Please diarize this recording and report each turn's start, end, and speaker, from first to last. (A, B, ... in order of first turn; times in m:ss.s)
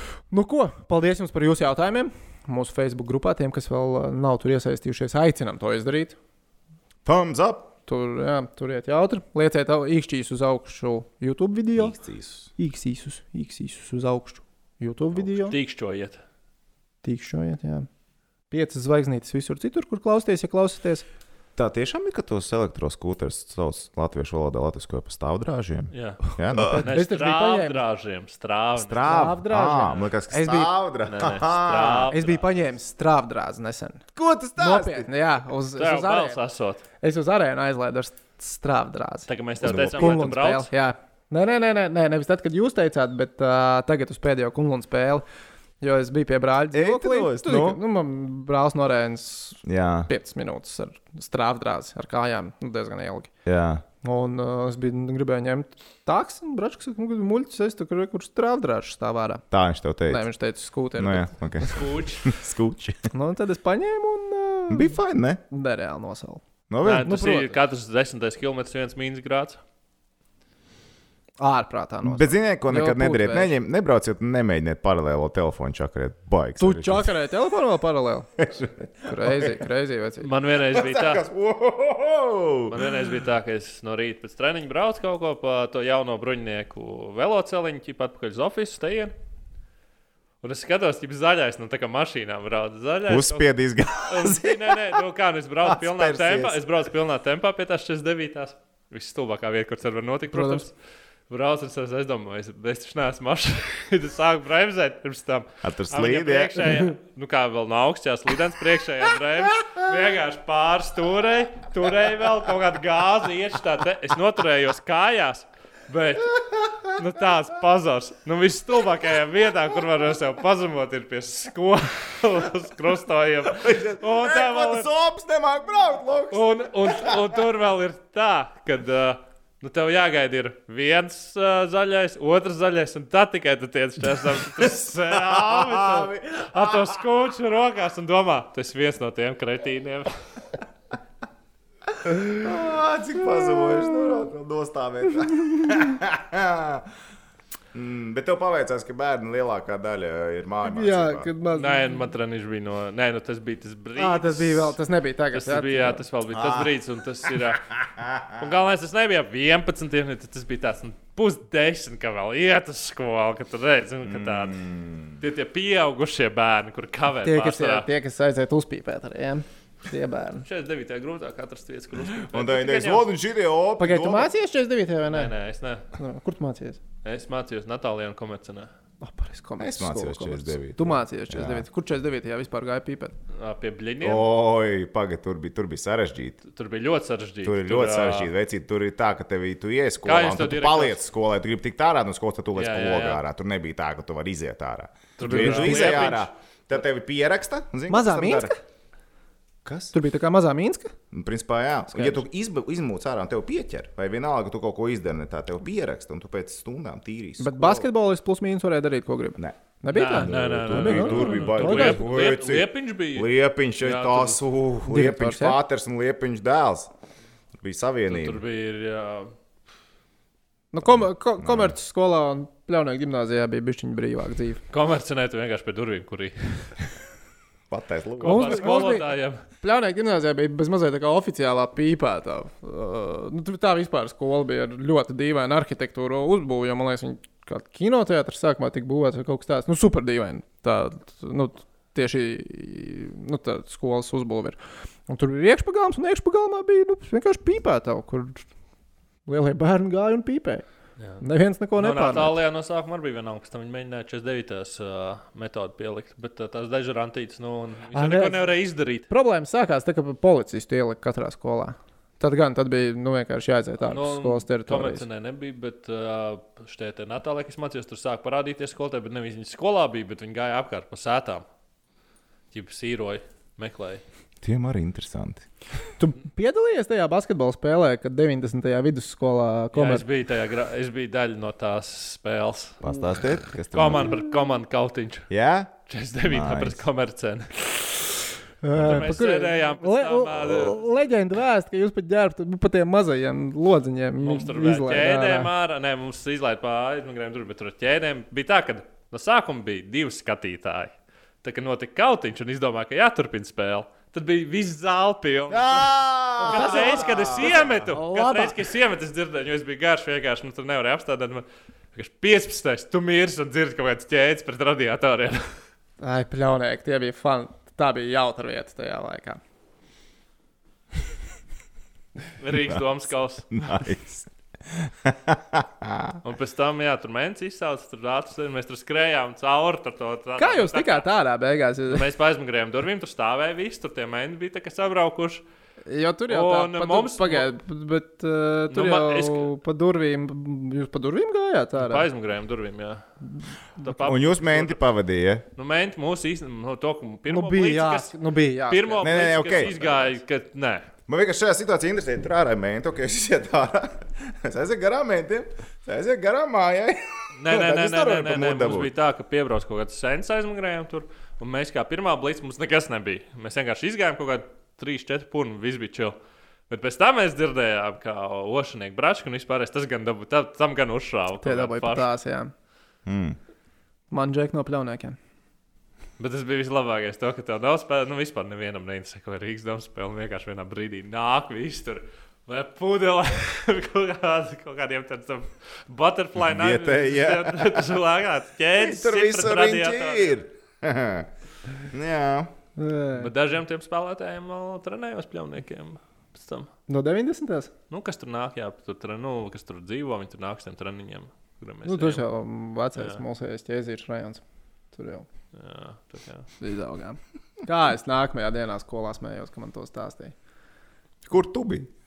0:00.3-0:06.2 A
0:07.0-0:07.7 B
0:07.9-0:12.0 A
0:11.8-0:12.5 B
0:12.6-0:15.5 A
0:15.2-0:16.2 C
0:17.0-0:17.9 A
0:18.5-0:21.0 A
0:21.6-0:26.9 B
0:25.9-0:29.1 C
0:26.5-0:27.8 A
0:28.8-0:32.2 B
0:29.0-0:30.7 A
0:31.1-0:32.6 C
0:32.1-0:34.0 A
0:34.1-0:35.1 B
0:34.6-0:36.4 A
0:35.8-0:36.8 C
0:37.0-0:45.2 A
0:39.3-0:40.7 C
0:39.6-0:40.2 B
0:45.8-0:53.3 A
0:46.7-0:47.8 B
0:49.6-0:50.1 B
0:53.4-0:53.8 B
0:54.0-0:59.4 A
0:59.5-1:00.3 B
1:00.1-1:01.7 A
1:01.0-1:03.1 B
1:01.6-1:02.3 C
1:03.1-1:05.0 A
1:04.7-1:05.4 B
1:05.5-1:07.5 A
1:06.7-1:07.2 B
1:06.8-1:09.6 C
1:11.4-1:13.5 A
1:12.0-1:17.1 B
1:16.6-1:18.3 A
1:18.4-1:19.6 B
1:19.0-1:20.3 A
1:20.2-1:21.2 C
1:20.6-1:23.0 B
1:22.7-1:29.1 C
1:30.4-1:33.5 C
1:33.1-1:35.0 B
1:34.0-1:40.7 C
1:35.6-1:36.6 B
1:40.3-1:40.6 A
1:41.3-2:04.9 C
1:45.6-1:46.7 B
1:56.4-1:56.9 B
2:03.5-2:07.4 B
2:06.3-2:20.1 C
2:14.6-2:17.0 B
2:22.0-2:26.9 B
2:25.3-2:25.8 A
2:27.7-2:31.3 B
2:30.6-2:32.0 A
2:31.5-2:34.8 C
2:34.0-2:36.0 A
2:35.3-2:37.7 C
2:36.3-2:38.5 B
2:38.3-2:44.6 C
2:44.0-2:45.2 B
2:45.2-2:47.9 C
2:47.2-2:50.4 A
2:50.4-2:53.1 C
2:52.3-2:54.3 B
2:53.8-2:55.4 A
2:55.1-2:55.8 C
2:55.9-2:56.8 A
2:57.0-2:58.7 C
2:59.0-3:03.2 A
2:59.6-3:01.6 B
3:03.3-3:04.2 C
3:04.0-3:06.4 B
3:06.5-3:08.3 C
3:07.4-3:18.5 B
3:10.0-3:11.0 C
3:12.5-3:13.2 C
3:15.2-3:16.3 C
3:15.2-3:16.2 A
3:17.9-3:18.6 A
3:19.6-3:19.9 B
3:19.9-3:20.9 A
3:21.1-3:27.9 B
3:21.9-3:22.2 A
3:27.4-3:32.2 A
3:29.4-3:36.9 B
3:29.9-3:34.4 C
3:34.8-3:35.6 A
3:37.6-3:38.4 B
3:38.1-3:39.3 C
3:40.7-3:44.6 A
3:41.4-3:41.7 B
3:44.7-3:46.7 C
3:47.7-3:49.0 B
3:48.2-3:49.4 C
3:48.2-4:04.6 A
4:05.1-4:08.4 A
4:09.2-4:10.6 A
4:11.2-4:12.4 A
4:11.7-4:19.1 C
4:17.9-4:18.5 A
4:19.1-4:25.0 A
4:23.9-4:31.4 C
4:32.5-4:34.0 C
4:34.4-4:35.4 B
4:36.0-4:40.0 A
4:39.7-4:43.0 C
4:42.8-4:44.2 B
4:43.7-4:45.3 C
4:45.3-4:46.8 B
4:45.9-4:47.7 C
4:48.6-4:55.5 A
4:48.8-4:50.9 C
4:54.2-5:15.5 C
5:05.5-5:07.9 B
5:06.4-5:08.6 A
5:16.0-5:19.4 A
5:22.4-5:23.7 C
5:23.5-5:26.2 B
5:26.2-5:31.1 C
5:30.4-5:32.0 A
5:31.9-5:35.4 C
5:35.8-5:42.1 A
5:36.3-5:37.5 C
5:38.7-5:39.5 C
5:41.8-5:43.0 C
5:43.8-5:44.8 C
5:44.0-5:45.4 B
5:45.6-5:48.1 C
5:47.3-5:50.0 A
5:48.7-5:50.9 C
5:49.0-5:50.0 B
5:51.1-5:58.9 B
5:57.3-6:06.2 C
6:06.7-6:12.1 C
6:11.4-6:12.5 A
6:13.0-6:13.4 B
6:14.1-6:15.2 A
6:16.2-6:30.4 C
6:26.4-6:27.9 B
6:28.8-6:31.3 B
6:31.8-6:32.5 B
6:32.8-6:33.3 A
6:33.2-6:36.7 C
6:36.9-6:37.7 A
6:37.9-6:42.2 C
6:41.8-6:44.4 A
6:43.0-6:43.2 C
6:44.9-6:45.2 A
6:45.5-6:46.5 C
6:46.6-6:50.3 A
6:51.3-6:51.9 B